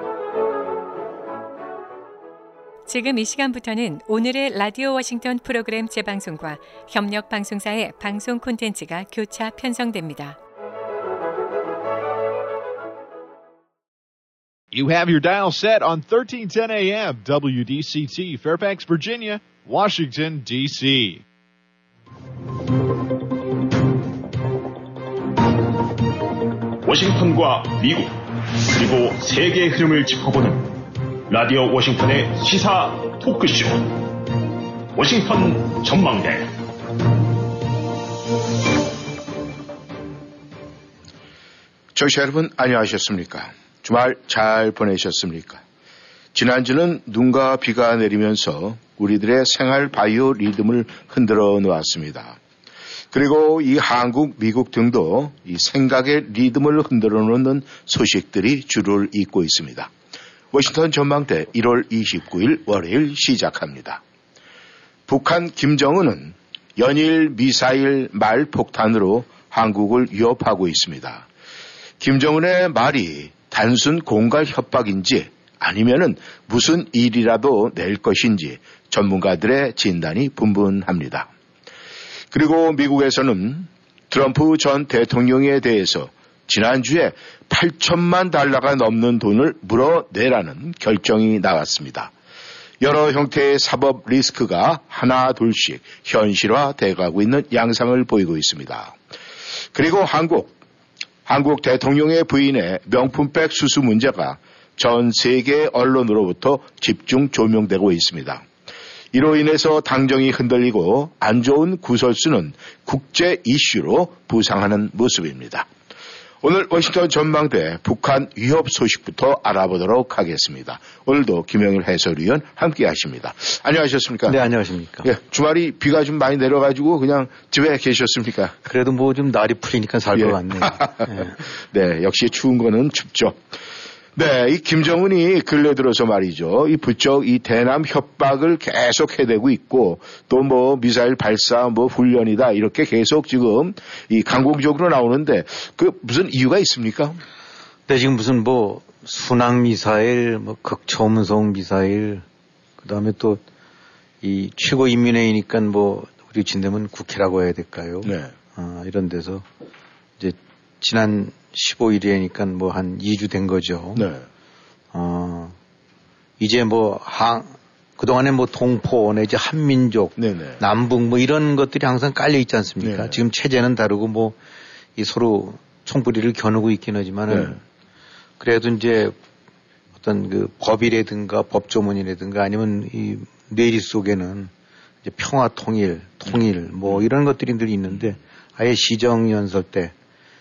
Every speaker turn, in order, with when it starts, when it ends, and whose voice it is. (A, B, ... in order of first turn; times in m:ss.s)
0:02.9-0:10.4 A
0:14.7-0:21.2 B
0:26.8-0:30.8 C
0:31.3-0:34.0 C
0:35.0-0:36.5 C
0:42.0-0:45.6 D
0:46.3-0:52.4 D
0:53.1-0:59.9 D
1:00.5-1:04.0 D
1:05.1-1:11.3 D
1:12.0-1:21.3 D
1:22.3-1:32.1 D
1:32.8-1:39.0 D
1:39.7-1:40.6 D
1:41.3-1:48.5 D
1:49.1-1:55.7 D
1:56.4-2:04.4 D
2:04.3-2:05.1 E
2:05.0-2:08.6 D
2:08.7-2:11.4 E
2:10.2-2:13.4 D
2:14.2-2:27.2 D
2:27.9-2:32.2 E
2:32.8-2:33.4 E
2:34.2-2:39.4 E
2:38.0-2:38.3 D
2:40.2-2:44.1 E
2:44.0-2:44.3 D
2:44.9-2:45.6 E
2:46.4-2:54.4 E
2:50.2-2:50.6 D
2:52.8-2:53.2 D
2:55.0-2:57.6 E
2:57.3-2:57.6 D
2:58.4-2:59.2 E
3:00.0-3:04.5 E
3:05.0-3:09.9 E
3:06.3-3:07.1 D